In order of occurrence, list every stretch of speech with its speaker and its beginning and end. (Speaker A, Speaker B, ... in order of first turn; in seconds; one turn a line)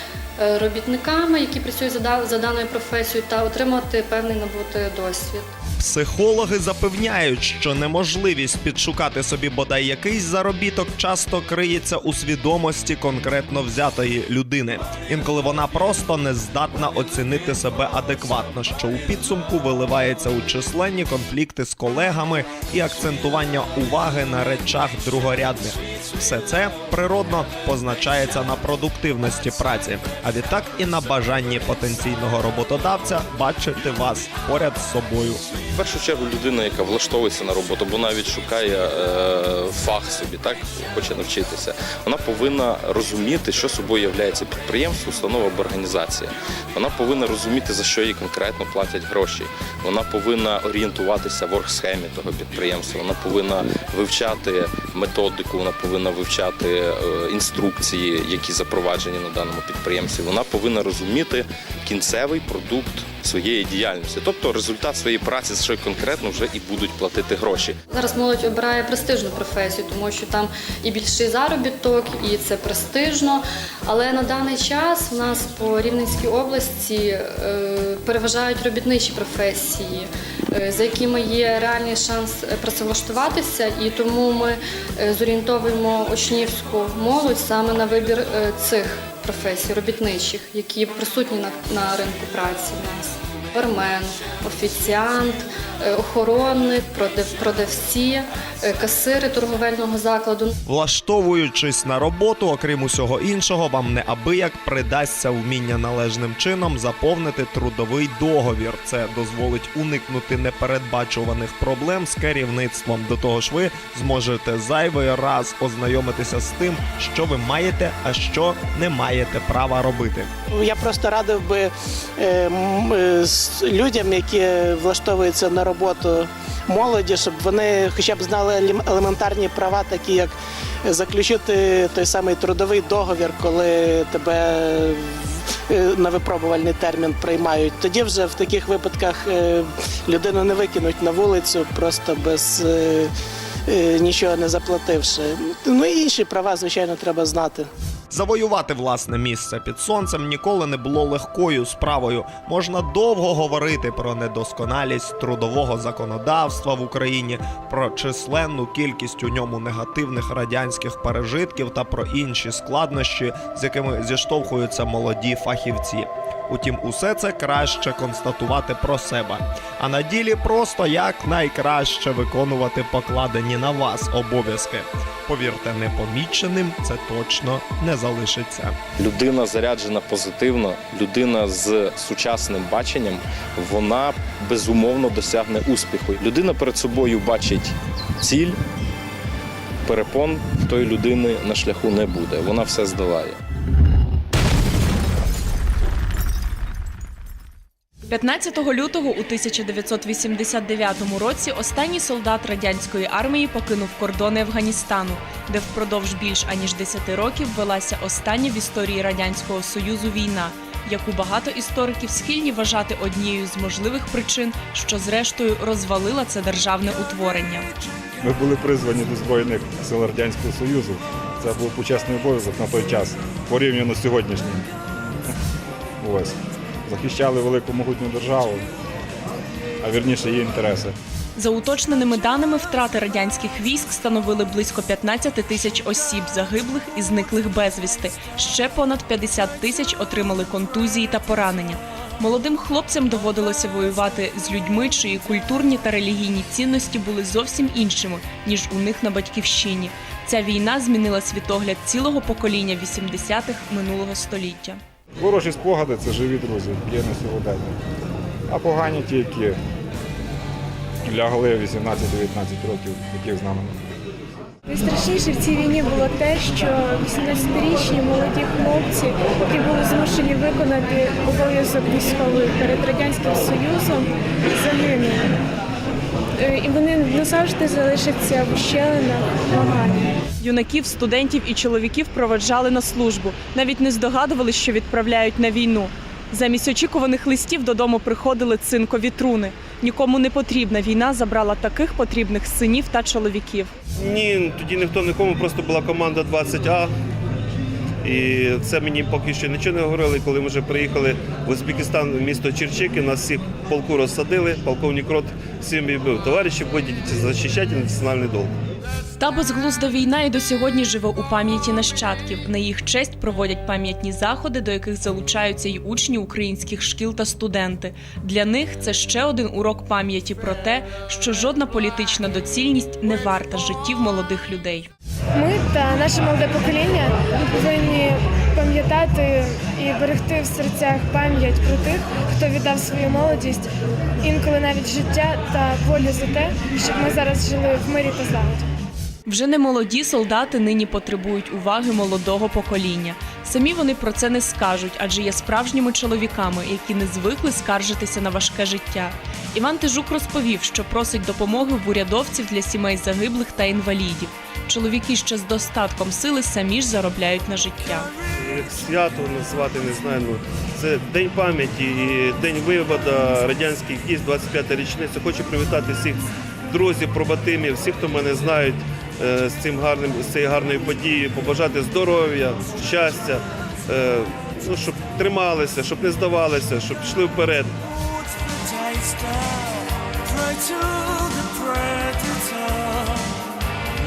Speaker A: 0.4-5.5
Speaker B: 5.8-35.4
Speaker C: 35.7-67.8
Speaker A: 67.9-100.5
Speaker B: 100.7-120.3
Speaker D: 120.5-143.1
Speaker D: 143.7-147.7
Speaker B: 148.1-178.8
Speaker C: 179.0-188.6
Speaker C: 189.8-193.4
Speaker E: 198.1-217.7
Speaker F: 218.2-224.7
Speaker F: 226.0-228.7
Speaker F: 229.8-231.0
Speaker E: 231.3-254.8
Speaker F: 255.2-257.8
Speaker F: 258.5-259.6
Speaker F: 261.0-263.8
Speaker G: 264.7-275.3
Speaker G: 276.4-280.1
Speaker E: 280.4-293.7
Speaker H: 294.0-296.9
Speaker H: 298.0-308.5
Speaker E: 309.1-324.9
Speaker G: 325.4-333.7
Speaker G: 334.2-338.6
Speaker E: 339.2-358.1
Speaker H: 358.4-377.7